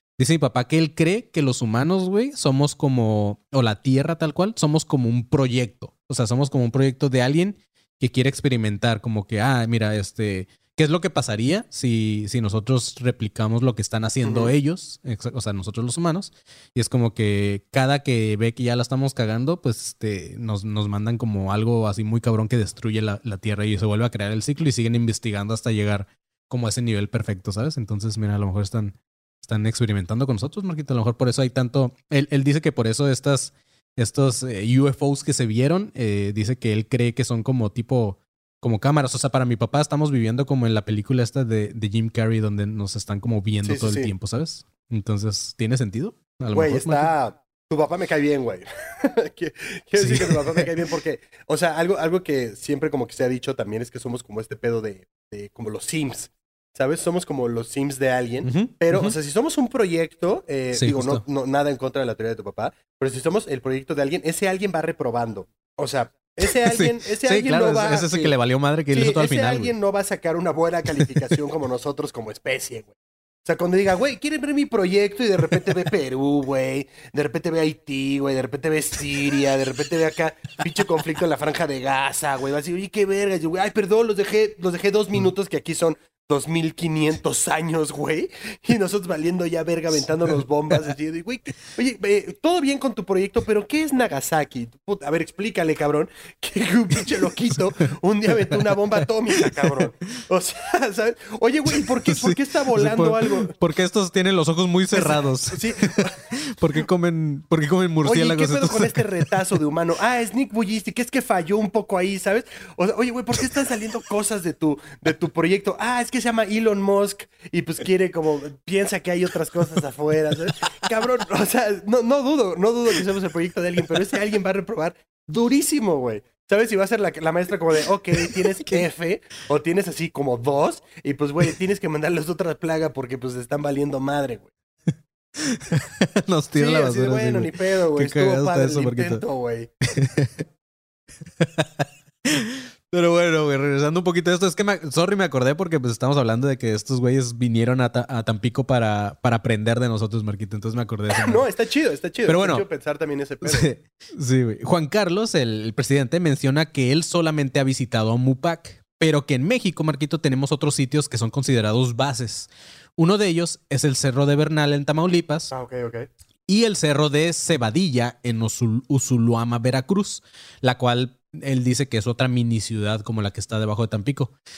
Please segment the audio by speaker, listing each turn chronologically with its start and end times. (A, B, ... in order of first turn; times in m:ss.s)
0:00.2-0:47.1 A
0:14.2-0:14.5 B
0:43.6-0:44.1 B
0:46.5-1:08.3 B
0:50.0-0:50.7 A
0:58.4-0:59.1 A
1:00.7-1:01.2 A
1:06.6-1:09.7 A
1:08.9-1:12.9 B
1:13.4-1:43.5 B
1:38.3-1:38.7 A
1:39.4-1:39.7 A
1:42.1-1:49.1 A
1:44.9-1:46.2 B
1:48.0-2:14.5 B
2:08.2-2:08.8 A
2:15.4-2:19.2 A
2:16.6-2:19.7 B
2:19.9-2:20.4 A
2:21.4-2:31.4 A
2:31.1-2:33.7 B
2:32.3-2:32.7 A
2:33.4-2:45.5 A
2:45.5-2:46.1 B
2:46.5-2:54.3 A